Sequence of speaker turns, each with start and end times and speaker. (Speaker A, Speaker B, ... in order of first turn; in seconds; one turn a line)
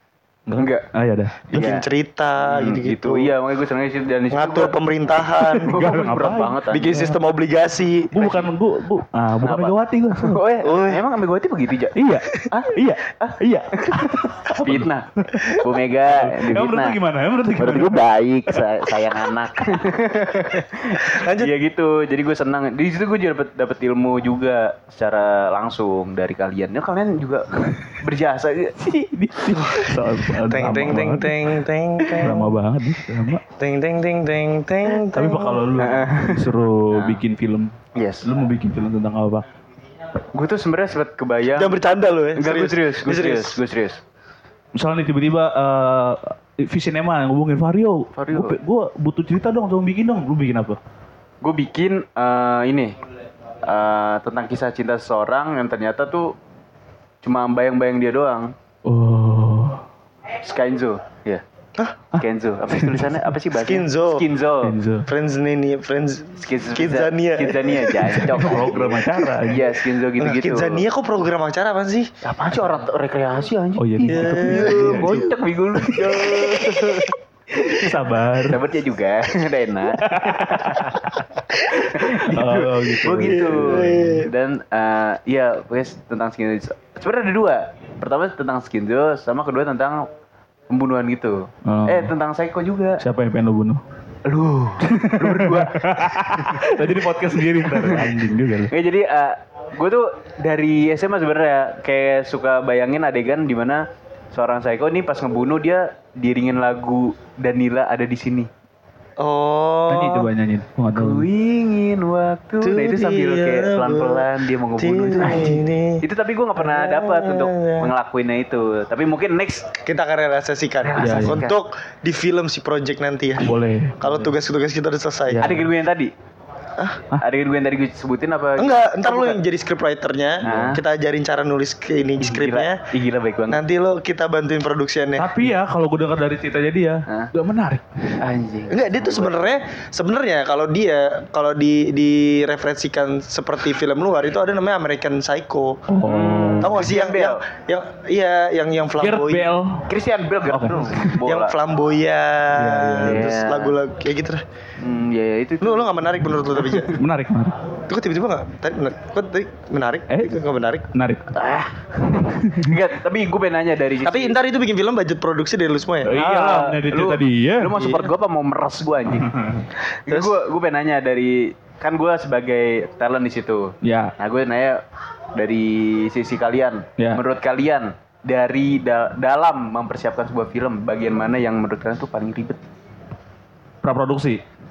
Speaker A: 0.5-1.7
Speaker B: 0.6-0.9
Speaker C: 1.5-3.3
Speaker B: 1.5-1.9
Speaker B: 2.4-4.8
Speaker C: 4.3-5.8
Speaker A: 5.4-7.2
Speaker B: 5.6-7.0
Speaker C: 6.7-8.2
Speaker A: 8.1-10.4
Speaker B: 8.2-8.5
Speaker B: 9.4-14.0
Speaker C: 10.6-11.0
Speaker A: 12.0-18.6
Speaker B: 14.6-17.0
Speaker B: 17.6-28.8
Speaker C: 21.1-21.5
Speaker A: 28.8-31.6
Speaker C: 29.6-29.9
Speaker C: 30.5-32.5
Speaker A: 32.2-33.4
Speaker C: 33.6-35.7
Speaker A: 34.9-37.7
Speaker B: 35.8-37.2
Speaker B: 38.0-38.3
Speaker A: 38.2-39.5
Speaker B: 40.3-41.8
Speaker C: 41.5-43.6
Speaker B: 42.4-44.0
Speaker A: 44.8-50.8
Speaker B: 48.1-48.6
Speaker B: 51.4-53.0
Speaker B: 53.6-56.4
Speaker B: 57.2-58.5
Speaker A: 58.9-59.8
Speaker B: 60.4-61.4
Speaker A: 62.1-63.2
Speaker B: 62.1-64.8
Speaker C: 63.5-64.3
Speaker A: 64.6-65.1
Speaker C: 65.1-68.2
Speaker B: 66.4-70.8
Speaker A: 68.0-69.7
Speaker C: 70.2-72.1
Speaker B: 72.2-77.9
Speaker A: 73.8-75.3
Speaker C: 74.1-75.3
Speaker C: 76.4-76.7
Speaker A: 77.7-78.6
Speaker B: 78.5-81.0
Speaker A: 80.0-81.2
Speaker B: 81.6-90.1
Speaker A: 82.3-84.2
Speaker C: 83.2-84.3
Speaker B: 90.7-93.0
Speaker A: 91.7-92.1
Speaker A: 93.0-93.8
Speaker B: 94.2-96.8
Speaker A: 94.9-98.7
Speaker B: 97.6-98.2
Speaker B: 98.7-108.5
Speaker C: 109.2-110.3
Speaker A: 109.9-111.3
Speaker B: 110.9-119.7
Speaker C: 112.6-116.0
Speaker C: 116.6-117.9
Speaker C: 119.8-125.5
Speaker B: 120.8-121.6
Speaker A: 121.0-121.5
Speaker A: 123.4-124.3
Speaker A: 125.3-125.7
Speaker B: 125.4-126.1
Speaker B: 127.2-129.4
Speaker C: 128.6-132.8
Speaker B: 130.4-130.8
Speaker A: 130.4-130.8
Speaker B: 132.2-133.6
Speaker C: 133.5-135.3
Speaker A: 135.2-138.2
Speaker B: 138.2-139.5
Speaker C: 138.7-145.8
Speaker A: 145.9-146.8
Speaker B: 146.0-147.4
Speaker C: 146.6-149.5
Speaker A: 149.0-149.9
Speaker B: 149.9-151.6
Speaker A: 150.5-151.2
Speaker C: 151.2-154.4
Speaker A: 152.5-153.3
Speaker B: 153.0-153.8
Speaker B: 154.8-155.9
Speaker C: 155.6-157.0
Speaker B: 156.5-157.0
Speaker A: 157.0-157.6
Speaker C: 157.9-160.9
Speaker A: 160.1-160.4
Speaker A: 160.9-161.3
Speaker B: 161.3-164.4
Speaker A: 162.4-162.8
Speaker C: 164.0-166.1
Speaker A: 166.0-167.7
Speaker B: 166.1-169.3
Speaker C: 167.7-168.1
Speaker A: 169.1-169.7
Speaker B: 170.1-174.8
Speaker C: 170.1-170.3
Speaker A: 173.8-174.1
Speaker B: 175.3-182.6
Speaker A: 183.8-184.4